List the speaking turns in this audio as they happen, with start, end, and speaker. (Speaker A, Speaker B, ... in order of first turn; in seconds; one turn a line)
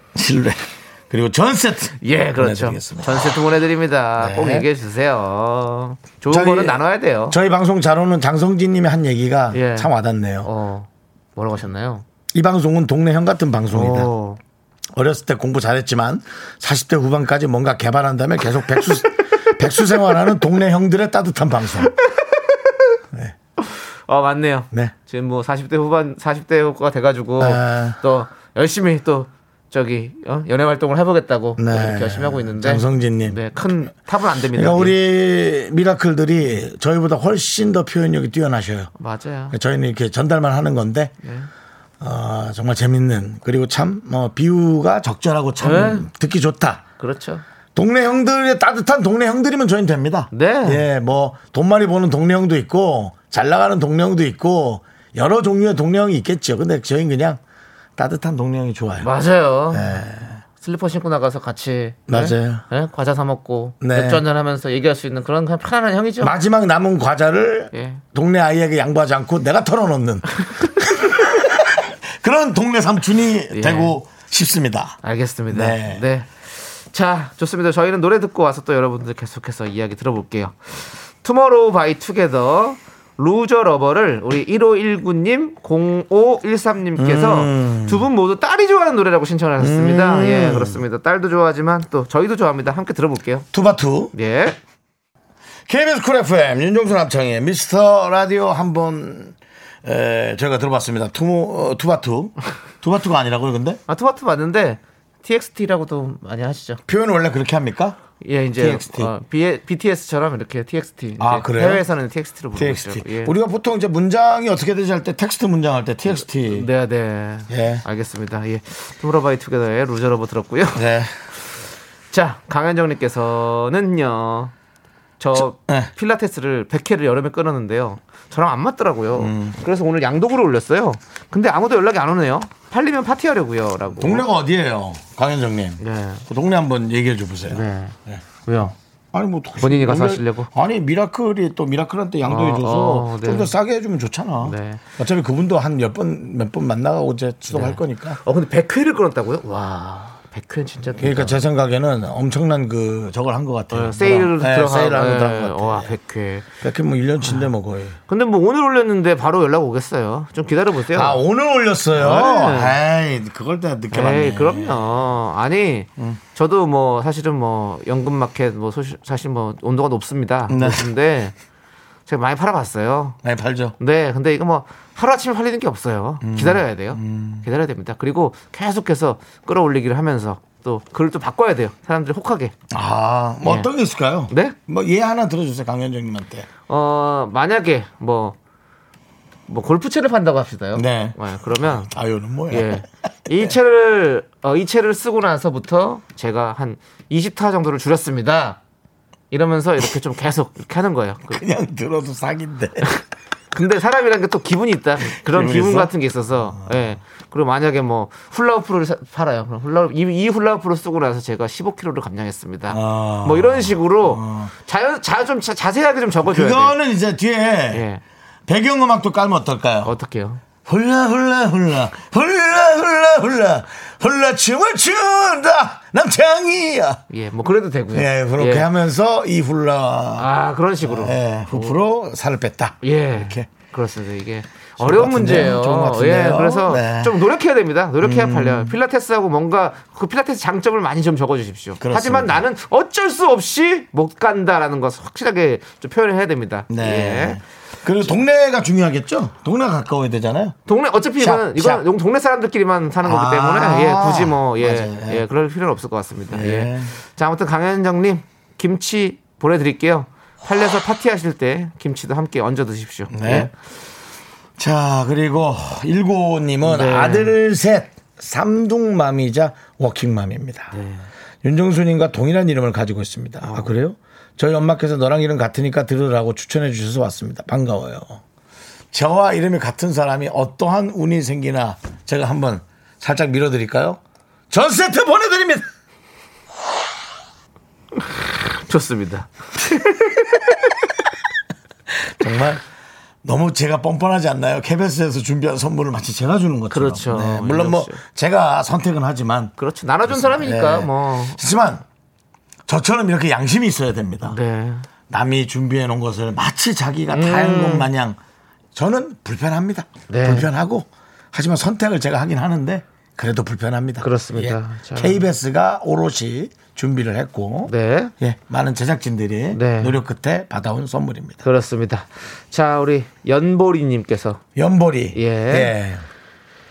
Speaker A: 0.1-3.4
Speaker B: 2.0-7.4
Speaker A: 4.2-4.7
Speaker A: 6.3-10.5
Speaker B: 9.5-9.9
Speaker B: 10.4-12.1
Speaker A: 12.3-14.1
Speaker B: 13.7-14.4
Speaker A: 14.9-21.9
Speaker B: 23.6-35.0
Speaker A: 27.4-28.0
Speaker A: 31.6-33.4
Speaker A: 34.5-38.9
Speaker B: 39.0-39.6
Speaker A: 39.5-41.1
Speaker B: 41.2-41.5
Speaker A: 42.0-46.8
Speaker B: 45.6-46.1
Speaker B: 47.0-47.4
Speaker A: 47.8-57.4
Speaker B: 50.3-50.8
Speaker A: 58.0-59.1
Speaker B: 59.0-60.0
Speaker A: 59.7-60.4
Speaker B: 60.6-66.3
Speaker A: 62.1-62.6
Speaker A: 63.8-64.2
Speaker A: 66.2-75.0
Speaker B: 67.7-68.0
Speaker B: 73.5-74.0
Speaker B: 75.0-93.5
Speaker A: 75.5-76.0
Speaker A: 87.0-88.1
Speaker A: 89.6-90.8
Speaker A: 93.5-94.1
Speaker B: 94.1-94.6
Speaker A: 95.7-103.8
Speaker B: 103.9-106.8
Speaker A: 106.9-108.0
Speaker B: 108.2-113.3
Speaker A: 108.6-109.1
Speaker A: 111.2-111.8
Speaker A: 112.5-116.7
Speaker B: 116.1-120.8
Speaker A: 117.5-117.8
Speaker A: 120.8-121.2
Speaker B: 122.1-124.5
Speaker B: 125.2-134.3
Speaker A: 125.3-125.9
Speaker A: 129.1-129.6
Speaker A: 134.0-138.2
Speaker B: 135.8-136.2
Speaker B: 137.5-138.8
Speaker A: 139.1-148.2
Speaker B: 139.6-140.5
Speaker B: 142.2-143.5
Speaker B: 144.4-144.8
Speaker B: 147.5-151.4
Speaker A: 150.9-156.0
Speaker B: 153.7-156.5
Speaker A: 156.6-158.0
Speaker B: 158.1-161.2
Speaker A: 160.9-164.8
Speaker B: 162.0-162.8
Speaker B: 163.9-171.3
Speaker A: 170.5-170.9
Speaker B: 172.1-173.2
Speaker A: 173.2-173.8
Speaker B: 173.8-182.5
Speaker A: 176.2-177.5
Speaker A: 182.7-186.5
Speaker B: 184.3-184.6
Speaker B: 186.7-188.4
Speaker B: 189.5-191.9
Speaker A: 190.7-193.6
Speaker B: 192.5-198.6
Speaker B: 199.3-201.4
Speaker A: 201.3-202.9
Speaker B: 203.5-216.8
Speaker A: 205.2-206.9
Speaker A: 212.7-214.5
Speaker A: 216.3-217.8
Speaker B: 217.7-218.0
Speaker A: 218.5-219.9
Speaker B: 219.8-220.4
Speaker A: 220.7-227.0
Speaker B: 227.1-228.7
Speaker A: 227.9-230.3
Speaker B: 230.2-231.8
Speaker A: 230.8-233.5
Speaker B: 232.8-247.4
Speaker A: 234.8-237.2
Speaker A: 238.0-238.8
Speaker A: 241.8-242.5
Speaker A: 246.7-250.6
Speaker B: 250.7-263.5
Speaker A: 251.2-251.8
Speaker A: 253.0-255.2
Speaker A: 256.3-256.9
Speaker A: 263.1-263.5
Speaker A: 264.6-270.7
Speaker B: 266.6-267.4
Speaker B: 270.7-271.0
Speaker A: 271.4-278.2
Speaker B: 273.4-273.7
Speaker A: 278.9-285.7
Speaker B: 288.2-290.6
Speaker A: 292.0-292.6
Speaker A: 293.2-299.6
Speaker B: 296.7-298.0
Speaker B: 299.6-301.4
Speaker A: 300.1-301.8
Speaker A: 302.7-304.4
Speaker B: 304.2-304.9
Speaker A: 305.1-308.2
Speaker B: 307.1-307.9
Speaker A: 308.8-321.4
Speaker B: 310.1-310.5
Speaker B: 314.0-315.2
Speaker B: 317.7-318.1
Speaker B: 319.5-320.0
Speaker B: 321.4-324.4
Speaker A: 324.6-326.0
Speaker B: 325.1-325.7